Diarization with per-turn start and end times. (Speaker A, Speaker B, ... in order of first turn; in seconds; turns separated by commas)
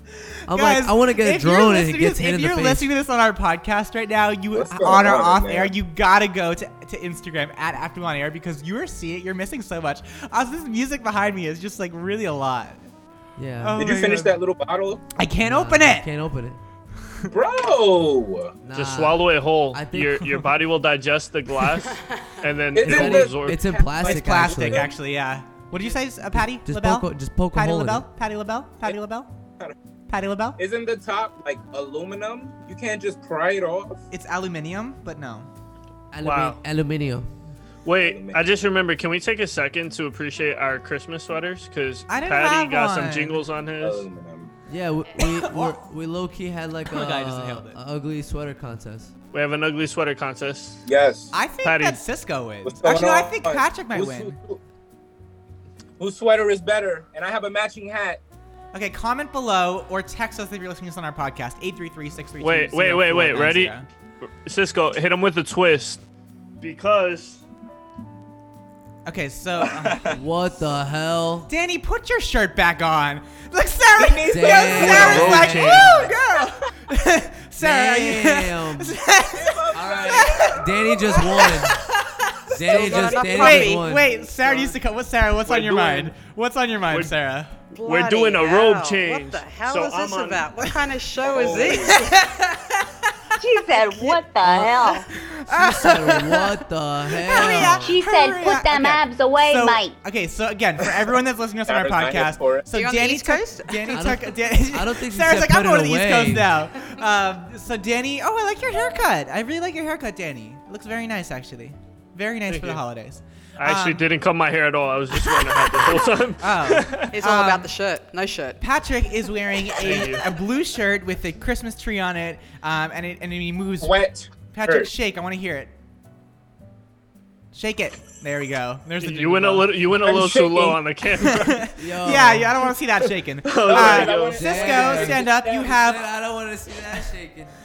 Speaker A: 0.5-2.9, Speaker B: 0.5-12.8, Speaker C: 4.5-5.7, Speaker A: 13.4-13.8, Speaker B: 13.6-14.4, Speaker C: 13.7-15.0, Speaker B: 15.2-16.1, Speaker A: 15.4-16.6, Speaker C: 17.3-18.6, Speaker A: 18.6-20.3, Speaker D: 18.7-23.6, Speaker C: 22.7-24.9, Speaker A: 22.8-24.9, Speaker B: 24.0-29.3, Speaker A: 26.3-28.1, Speaker B: 30.1-30.6, Speaker C: 30.6-34.0, Speaker B: 34.1-35.5, Speaker A: 36.1-37.3, Speaker D: 36.2-36.6, Speaker D: 37.8-44.0, Speaker C: 37.9-38.5, Speaker B: 42.1-43.4, Speaker C: 43.8-44.5, Speaker A: 44.7-49.1, Speaker B: 45.1-45.8, Speaker B: 46.8-47.8, Speaker D: 49.3-50.8, Speaker C: 50.9-51.4, Speaker B: 51.3-54.4, Speaker D: 51.6-52.0, Speaker C: 52.6-54.6, Speaker C: 56.0-58.2, Speaker B: 58.7-63.8, Speaker D: 62.4-66.0, Speaker D: 66.6-67.4, Speaker B: 69.0-70.2, Speaker C: 69.6-70.1, Speaker A: 70.1-71.5, Speaker B: 71.5-82.2, Speaker C: 74.0-76.1, Speaker A: 74.2-76.1, Speaker D: 74.8-75.9, Speaker A: 77.6-79.0, Speaker C: 79.3-81.4, Speaker A: 79.7-81.7, Speaker A: 82.5-84.0, Speaker E: 82.6-84.8, Speaker B: 83.1-87.5, Speaker D: 85.5-86.2, Speaker D: 86.9-87.1, Speaker E: 87.7-92.1, Speaker D: 87.8-90.4, Speaker C: 91.2-92.1, Speaker B: 91.7-93.1, Speaker F: 93.4-95.1, Speaker B: 93.7-96.5, Speaker A: 95.5-97.9, Speaker B: 97.1-114.0, Speaker F: 97.6-99.9, Speaker C: 101.6-102.7, Speaker E: 102.7-104.1, Speaker A: 103.9-106.5, Speaker D: 112.5-112.8, Speaker D: 113.6-117.1, Speaker B: 115.1-117.7, Speaker E: 117.1-118.6, Speaker B: 118.6-124.0, Speaker D: 119.7-120.3, Speaker C: 123.8-124.9, Speaker B: 124.5-125.7, Speaker B: 127.5-129.8, Speaker D: 129.0-131.6, Speaker C: 130.0-130.8, Speaker B: 131.2-136.1, Speaker A: 131.8-132.6, Speaker D: 133.4-134.7, Speaker C: 133.6-135.8, Speaker A: 134.3-137.5